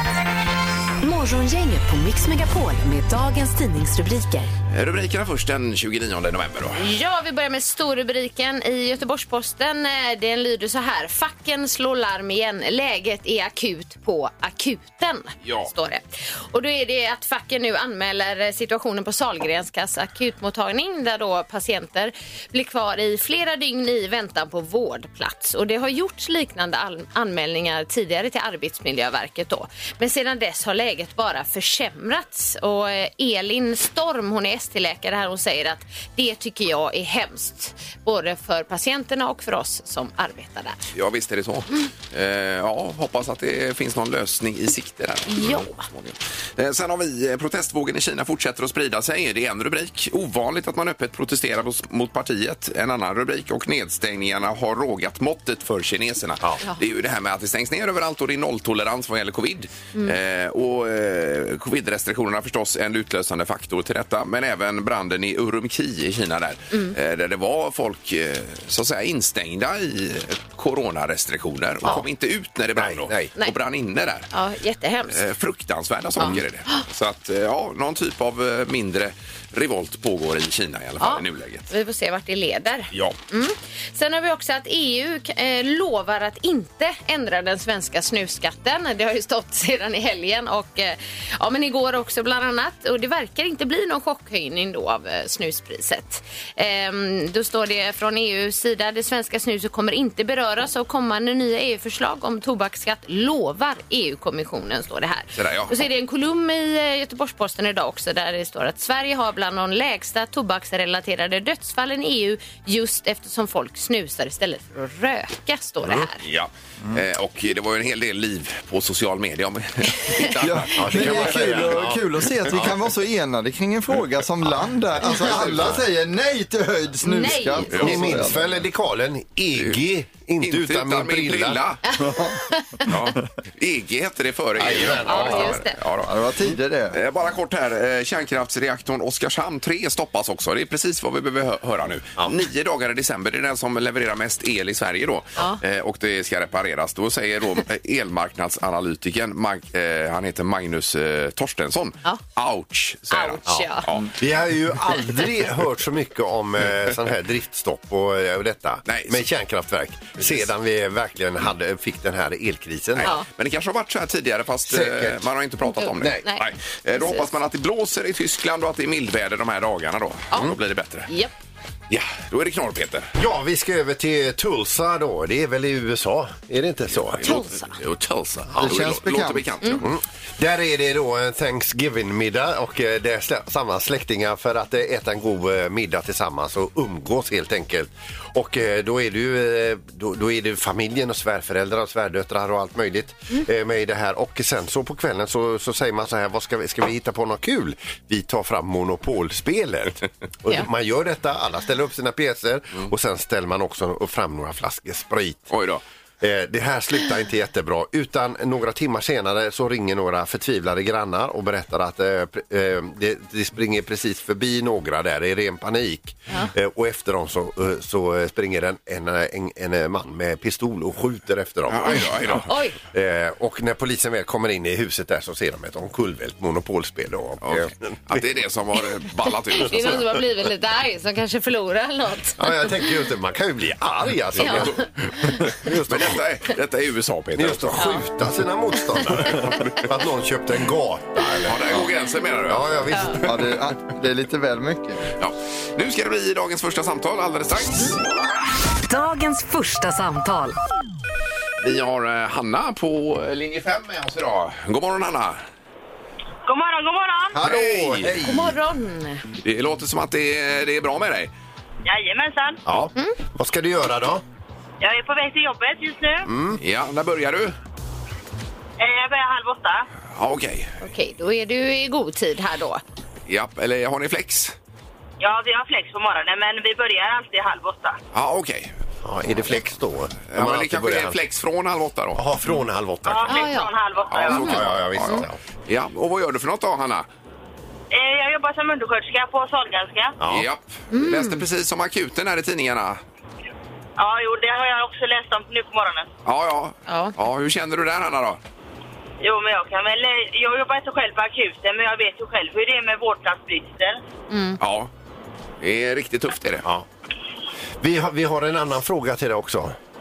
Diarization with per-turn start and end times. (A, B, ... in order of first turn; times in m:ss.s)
0:01.0-0:04.5 A
0:04.7-0:06.8 B
0:06.8-0:40.8 C
0:15.4-0:15.7 B
0:40.9-1:14.3 B
0:45.3-0:45.8 C
1:12.8-1:13.3 D
1:14.3-1:15.2 C
1:15.1-1:21.7 B
1:21.0-1:56.2 C
1:45.4-1:45.8 B
1:56.2-2:01.9 B
2:00.4-2:08.6 E
2:00.7-2:02.7 D
2:05.0-2:05.8 D
2:05.3-2:05.7 B
2:07.0-2:07.9 C
2:07.7-2:08.2 B
2:07.7-2:11.6 D
2:09.6-2:09.8 B
2:10.4-2:11.8 B
2:11.9-2:13.0 C
2:12.0-2:12.4 E
2:12.9-2:16.1 B
2:12.9-2:13.2 E
2:14.6-2:15.6 D
2:15.0-2:15.8 C
2:16.0-2:17.0 E
2:16.9-2:34.1 B
2:33.1-2:33.9 C
2:33.5-2:43.1 D
2:38.9-2:39.2 B
2:43.0-2:51.1 B
2:44.7-2:45.2 D
2:45.7-2:47.3 C
2:46.0-2:46.2 D
2:51.1-2:51.3 C
2:51.9-2:53.1 B
2:53.2-2:57.4 D
2:57.0-3:00.0 B
2:57.2-2:57.8 C
2:58.5-2:58.9 D
2:58.6-2:59.5 E
2:59.8-3:25.5 D
3:25.5-3:25.8 B
3:26.2-3:48.3 D
3:41.7-3:42.5 B
3:42.4-3:42.8 C
3:47.4-3:50.2 B
3:49.5-3:52.9 C
3:52.4-3:56.2 D
3:54.4-3:57.8 B
3:54.4-3:54.7 C
3:57.4-4:01.8 D
3:57.8-3:58.0 C
3:58.8-3:59.4 C
4:01.4-4:02.8 B
4:02.5-4:03.6 D
4:02.9-4:03.2 C
4:03.2-4:05.0 E
4:05.2-4:08.0 B
4:08.9-4:10.6 A
4:11.6-4:15.4 B
4:16.5-4:17.4 F
4:17.3-4:18.2 D
4:17.4-4:18.1 B
4:17.5-4:18.5 E
4:18.2-4:19.2 C
4:19.4-4:21.3 B
4:21.8-4:22.6 F
4:22.7-4:24.2 D
4:24.8-4:26.3 F
4:26.3-4:26.6 D
4:26.6-4:27.6 B
4:28.8-4:29.9 F
4:30.1-4:30.7 B
4:30.8-4:32.8 C
4:33.3-4:34.6 B
4:35.2-4:38.0 F
4:38.1-4:38.8 B
4:39.0-4:41.2 D
4:39.3-4:39.6 B
4:40.3-4:42.2 B
4:42.2-4:43.5 D
4:43.0-4:44.5 F
4:43.2-4:43.8 C
4:44.1-4:47.1 B
4:44.2-4:45.4 D
4:44.3-4:45.2 C
4:47.9-4:50.2 F
4:50.2-4:50.5 D
4:50.3-4:53.0 B
4:50.9-4:51.4 C
4:54.0-4:56.1 F
4:56.2-4:58.4 B
4:56.9-4:57.1 C
4:59.2-5:04.0 F
5:04.3-5:04.6 C
5:04.6-5:04.9 B
5:05.6-5:06.7 B
5:07.8-5:09.8 D